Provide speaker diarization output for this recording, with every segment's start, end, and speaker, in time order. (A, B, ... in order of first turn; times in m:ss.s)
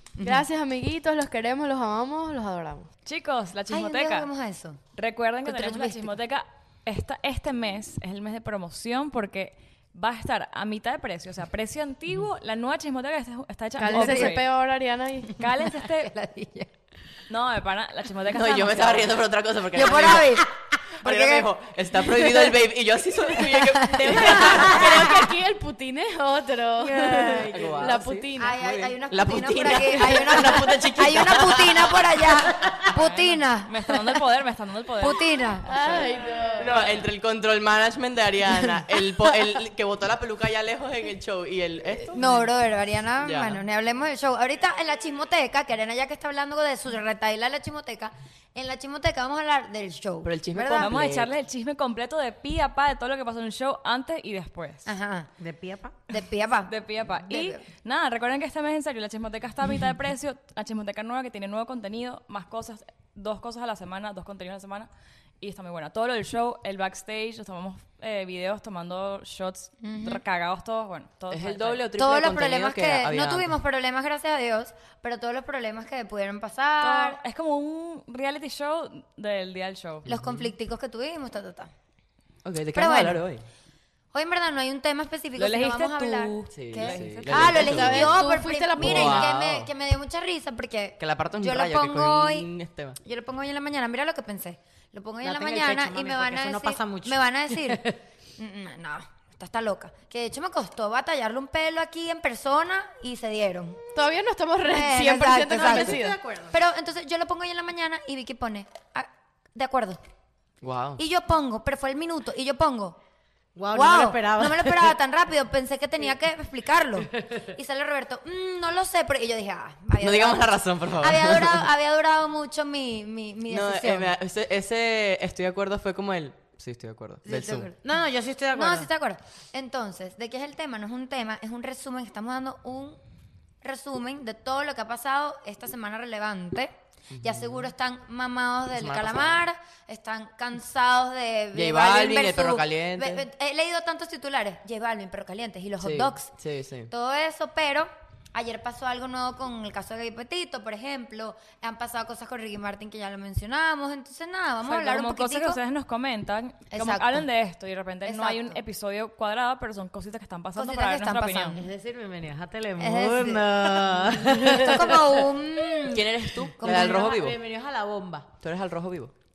0:00.2-0:00.4 A
0:00.2-0:02.9 B
0:03.0-0:04.3 C
0:03.7-0:04.8 A
0:05.0-0:14.5 C
0:05.4-0:06.1 A
0:13.8-0:15.4 B
0:13.9-0:14.4 A
0:15.4-0:16.1 C
0:15.4-0:16.7 A
0:17.3-0:19.1 C
0:18.2-0:20.5 D
0:19.7-0:21.5 A
0:21.0-0:25.0 D
0:22.0-0:22.6 A
0:23.4-0:24.3 A
0:24.2-0:28.6 B
0:26.8-0:27.8 E
0:27.1-0:32.3 D
0:28.4-0:34.0 A
0:32.9-0:35.4 C
0:35.0-0:35.7 A
0:35.6-0:36.8 B
0:36.5-0:42.2 D
0:42.1-0:50.9 A
0:43.2-0:43.6 D
0:50.2-0:51.3 D
0:50.8-0:54.9 C
0:54.8-0:55.3 A
0:55.4-0:56.0 E
0:56.1-0:57.6 A
0:56.7-1:04.9 C
1:05.4-1:11.8 C
1:09.8-1:10.2 A
1:11.3-1:13.6 D
1:12.0-1:17.2 A
1:16.8-1:20.0 C
1:20.0-1:20.5 D
1:20.1-1:21.7 A
1:22.4-1:23.4 D
1:22.7-1:23.2 A
1:24.1-1:32.5 A
1:25.4-1:27.8 C
1:26.5-1:28.2 D
1:27.3-1:29.3 B
1:28.8-1:29.7 D
1:31.0-1:33.0 D
1:33.0-1:37.8 A
1:35.2-1:37.9 E
1:38.4-1:43.8 A
1:43.9-1:46.2 B
1:44.6-1:46.0 A
1:45.4-1:46.6 E
1:46.5-1:50.0 A
1:50.6-1:51.0 D
1:51.0-1:53.0 A
1:53.5-1:55.0 E
1:53.7-2:04.1 A
2:00.0-2:01.7 D
2:03.5-2:07.7 D
2:07.2-2:07.8 A
2:07.8-2:08.9 E
2:08.5-2:13.0 A
2:13.6-2:26.3 A
2:17.1-2:17.7 D
2:18.7-2:19.4 D
2:21.5-2:23.2 D
2:25.8-2:26.9 D
2:26.9-2:35.6 A
2:34.6-2:41.6 C
2:36.7-2:37.3 A
2:38.0-2:38.6 A
2:40.5-2:41.6 A
2:41.5-2:46.0 E
2:42.8-2:43.9 A
2:44.5-2:47.2 A
2:45.9-2:47.4 D
2:46.6-2:48.3 E
2:48.4-2:49.1 D